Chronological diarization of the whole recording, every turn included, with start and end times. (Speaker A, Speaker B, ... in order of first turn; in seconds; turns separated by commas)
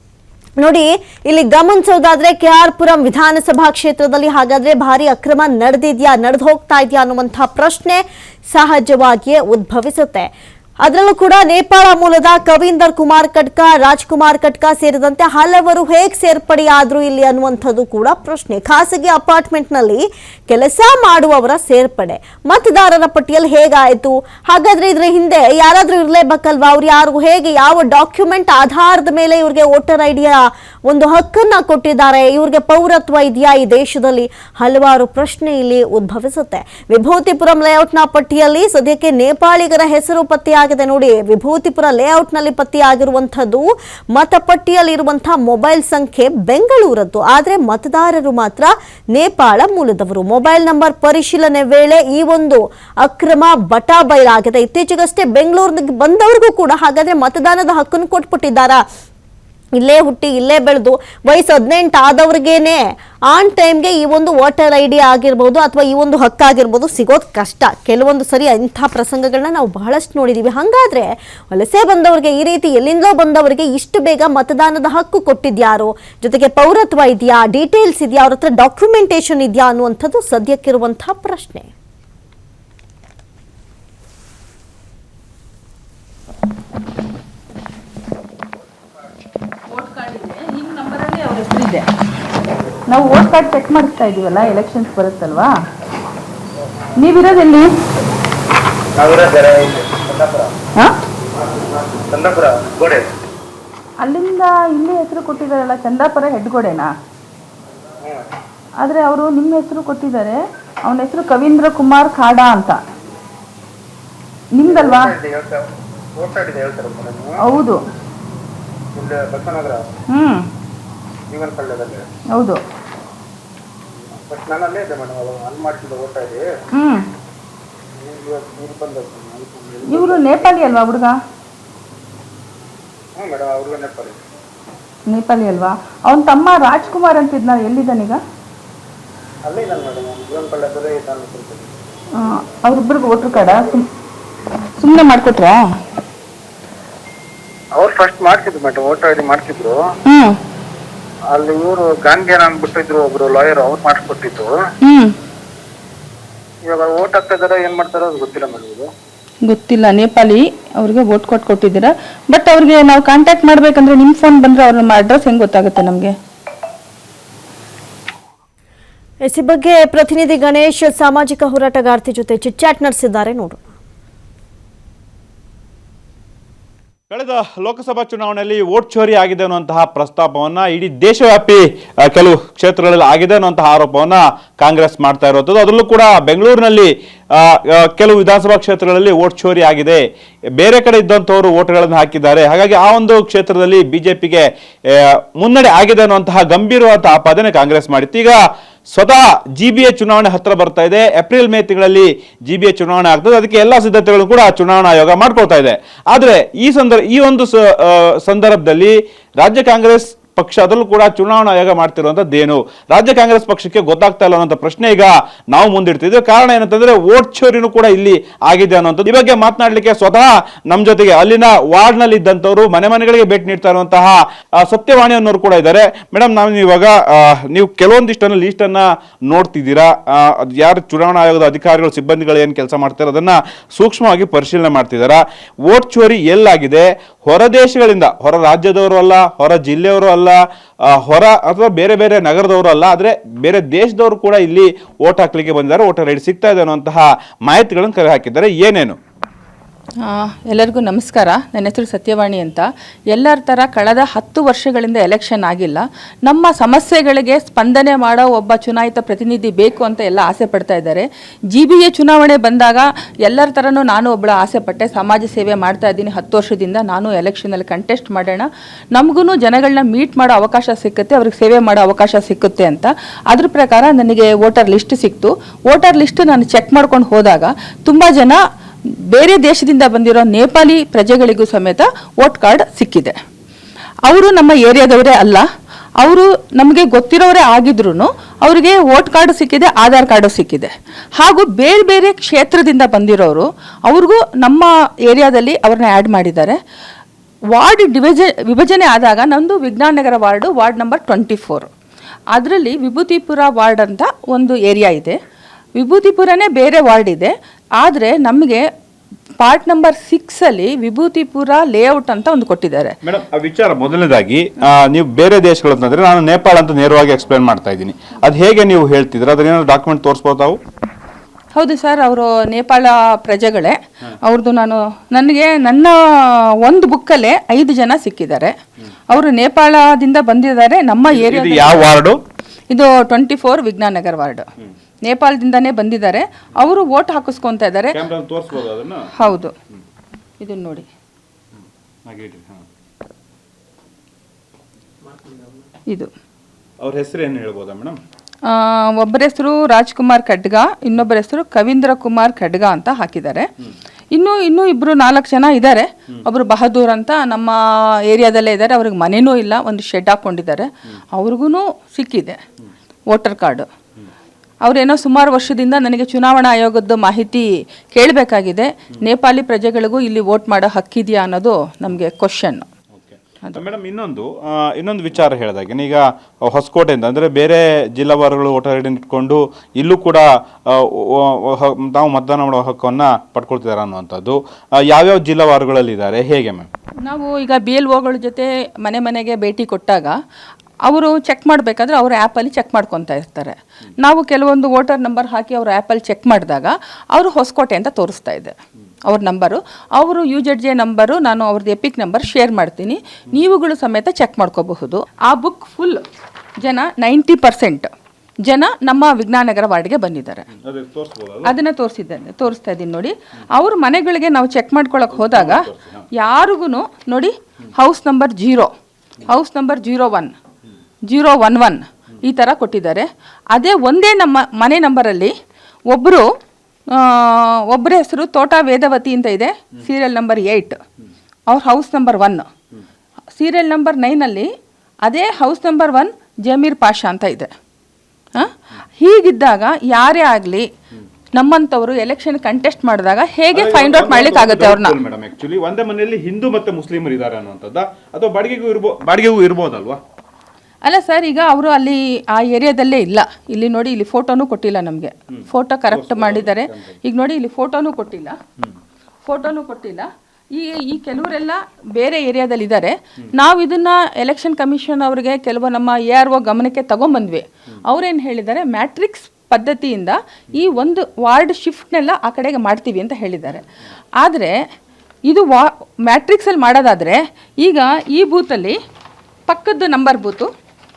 Speaker A: 0.6-58.8, Speaker A: 59.8-81.7, Speaker B: 89.7-91.9, Speaker B: 92.9-95.5, Speaker B: 97.0-97.7, Speaker C: 98.9-100.5, Speaker C: 101.4-103.0, Speaker B: 104.0-106.9, Speaker B: 108.8-112.8, Speaker B: 114.6-115.2, Speaker C: 114.6-117.4, Speaker B: 117.4-117.8, Speaker C: 119.0-119.9, Speaker B: 120.1-120.5, Speaker C: 121.3-122.0, Speaker B: 122.3-122.6, Speaker C: 124.0-126.5, Speaker B: 126.8-127.0, Speaker C: 128.0-130.7, Speaker B: 129.9-131.2, Speaker C: 133.2-134.2, Speaker B: 135.1-138.2, Speaker C: 139.5-141.7, Speaker B: 142.2-143.8, Speaker C: 143.3-143.8, Speaker B: 144.8-145.6, Speaker C: 147.7-149.8, Speaker B: 150.1-150.4, Speaker C: 151.3-154.5, Speaker B: 154.8-155.1, Speaker C: 156.6-158.9, Speaker B: 159.4-166.1, Speaker A: 169.2-173.6, Speaker D: 177.1-190.0, Speaker D: 190.6-198.4, Speaker D: 198.9-249.0, Speaker B: 250.0-278.4, Speaker B: 279.1-283.1, Speaker B: 284.1-285.4, Speaker B: 286.0-296.6, Speaker B: 297.5-301.7, Speaker B: 302.3-305.2, Speaker B: 305.8-308.6, Speaker B: 309.4-312.9, Speaker D: 313.0-320.6, Speaker B: 321.5-325.9, Speaker B: 326.6-328.5, Speaker B: 329.1-331.9, Speaker D: 331.1-332.1, Speaker B: 332.7-334.4, Speaker B: 335.1-338.0, Speaker D: 337.9-339.1, Speaker B: 339.2-339.5, Speaker B: 340.4-340.9, Speaker D: 342.1-342.6, Speaker D: 346.8-348.0, Speaker B: 348.5-353.5, Speaker B: 354.1-357.6, Speaker B: 358.1-362.4, Speaker B: 363.1-363.7, Speaker B: 364.6-372.7, Speaker D: 373.0-386.7, Speaker B: 387.0-390.1, Speaker B: 390.8-398.5, Speaker B: 399.1-406.0, Speaker B: 406.6-407.9, Speaker B: 408.4-410.5, Speaker D: 410.6-411.5, Speaker B: 411.4-418.7, Speaker D: 415.1-416.0, Speaker B: 419.3-420.3, Speaker B: 421.1-425.3, Speaker B: 425.9-426.2, Speaker B: 426.9-430.8, Speaker B: 431.5-432.5, Speaker B: 433.3-434.5, Speaker B: 435.0-437.5, Speaker B: 438.3-440.6, Speaker B: 441.3-444.9, Speaker D: 443.5-450.0, Speaker B: 450.8-458.4, Speaker D: 455.3-456.9, Speaker B: 459.2-473.6, Speaker B: 474.2-474.5, Speaker B: 475.3-478.8, Speaker B: 479.5-480.5